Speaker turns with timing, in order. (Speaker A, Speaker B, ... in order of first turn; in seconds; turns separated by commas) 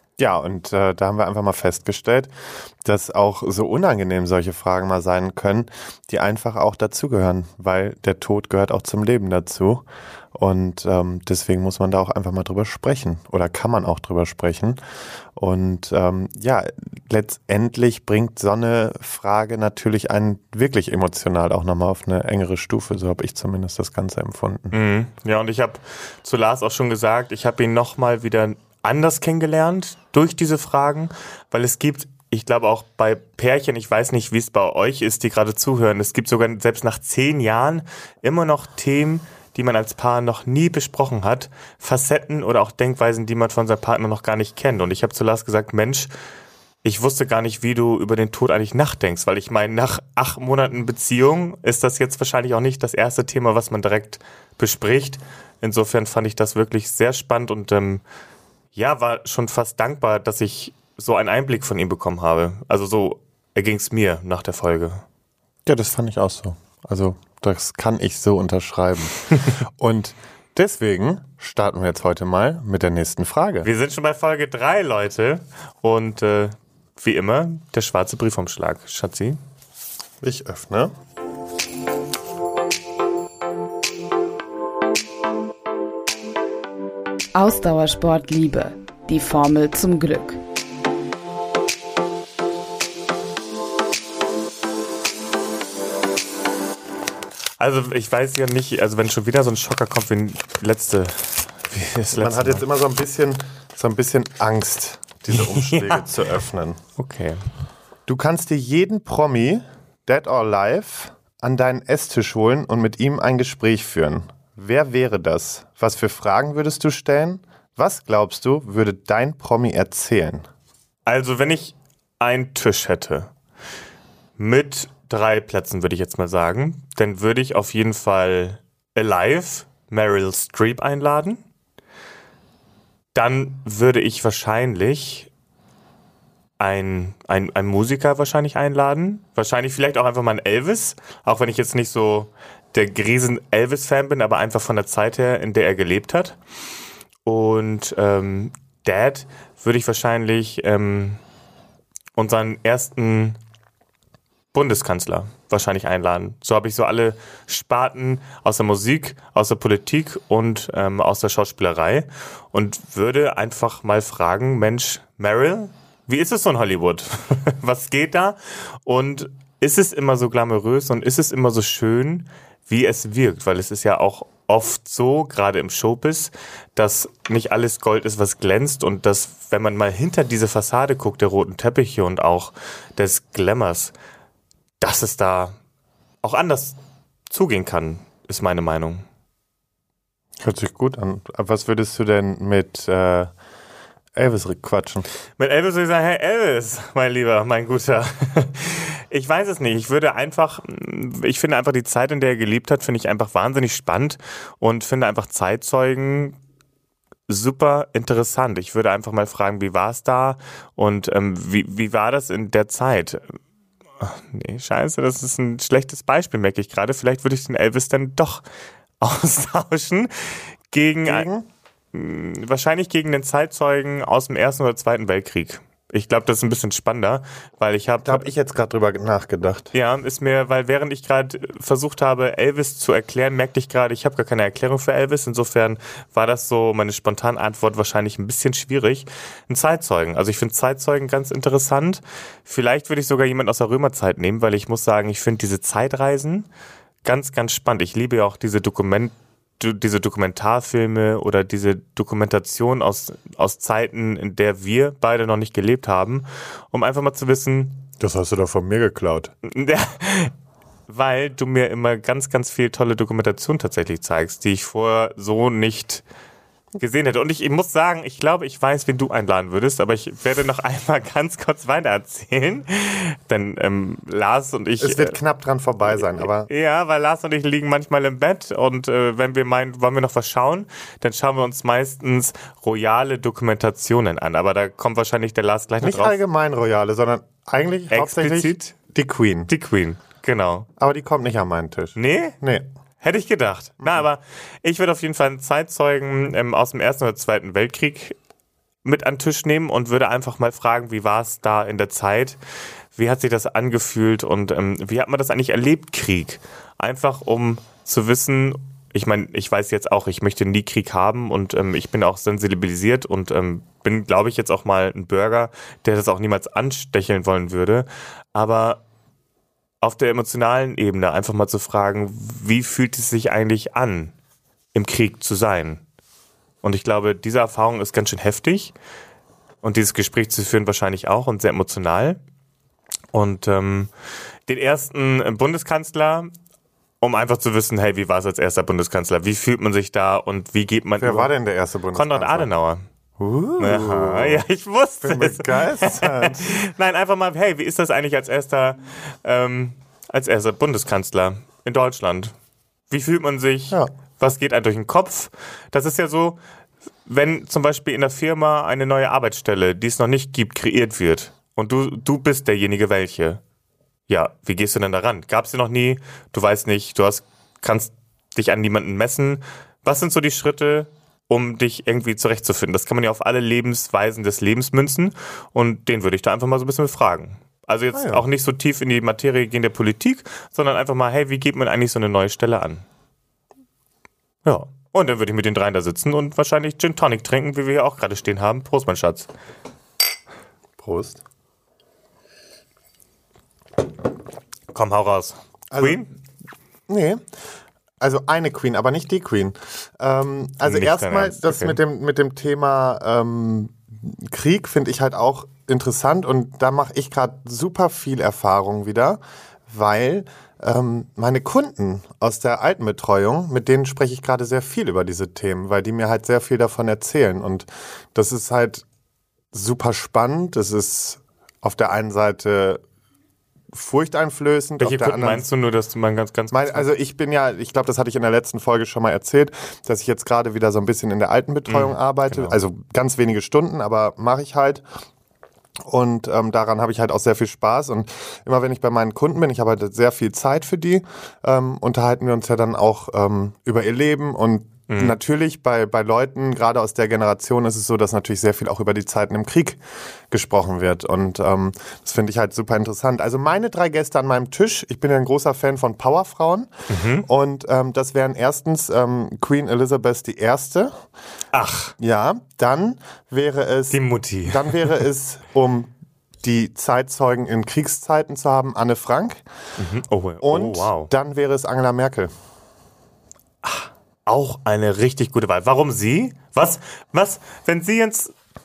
Speaker A: 0.2-2.3, Speaker A: 2.8-9.8, Speaker A: 10.3-14.8, Speaker A: 15.4-24.7, Speaker B: 24.7-46.1, Speaker B: 46.8-58.0, Speaker B: 58.7-65.0, Speaker A: 65.7-73.7, Speaker B: 73.6-79.4, Speaker A: 80.2-80.9, Speaker C: 87.3-90.4, Speaker B: 97.6-102.6, Speaker A: 102.2-106.8, Speaker B: 105.3-106.1, Speaker B: 107.0-107.4, Speaker A: 108.1-120.5, Speaker B: 121.1-123.3, Speaker B: 124.4-131.4, Speaker B: 133.2-135.3, Speaker B: 136.6-146.4, Speaker B: 147.2-151.2, Speaker B: 152.2-153.4, Speaker B: 154.5-183.9, Speaker B: 184.8-185.6, Speaker B: 186.2-186.8, Speaker B: 187.3-189.1, Speaker A: 190.4-193.3, Speaker A: 194.2-195.1, Speaker B: 195.4-206.4, Speaker B: 207.3-213.4, Speaker B: 214.0-218.4, Speaker B: 219.0-221.3, Speaker A: 221.0-221.5, Speaker B: 221.9-228.3, Speaker A: 228.0-229.7, Speaker B: 229.7-246.5, Speaker B: 247.0-257.9, Speaker A: 258.0-259.3, Speaker B: 259.4-260.3, Speaker B: 260.9-266.0, Speaker B: 266.8-275.2, Speaker A: 274.8-276.5, Speaker B: 275.9-286.2, Speaker A: 285.8-289.5, Speaker B: 287.9-288.7, Speaker B: 289.5-290.7, Speaker A: 290.8-292.6, Speaker B: 291.9-292.4, Speaker B: 293.0-298.2, Speaker B: 298.8-302.4, Speaker B: 302.9-318.8, Speaker B: 319.8-324.1, Speaker B: 324.7-325.8, Speaker B: 326.6-328.7, Speaker B: 329.6-332.2, Speaker B: 333.1-333.9, Speaker B: 334.5-336.3, Speaker B: 337.0-341.3, Speaker A: 341.0-342.5, Speaker B: 341.9-342.8, Speaker A: 343.2-344.4, Speaker B: 343.6-352.3, Speaker A: 345.0-346.6, Speaker B: 352.9-356.4, Speaker B: 357.1-363.4, Speaker B: 364.1-382.8, Speaker A: 377.9-378.2, Speaker B: 384.4-389.3, Speaker A: 390.8-391.2, Speaker B: 394.7-396.1, Speaker A: 395.7-396.0, Speaker A: 396.9-397.2, Speaker A: 398.0-418.8, Speaker B: 400.6-401.8, Speaker A: 419.5-422.8, Speaker A: 423.7-425.4, Speaker B: 424.8-426.9, Speaker A: 426.5-434.8, Speaker B: 431.7-432.5, Speaker A: 435.8-456.7, Speaker B: 444.9-445.1, Speaker B: 456.9-457.3, Speaker A: 457.2-460.9, Speaker B: 461.5-461.9, Speaker A: 462.0-465.9, Speaker B: 463.9-464.9, Speaker A: 466.4-469.4, Speaker B: 469.8-471.1, Speaker A: 470.4-472.3, Speaker B: 473.6-478.3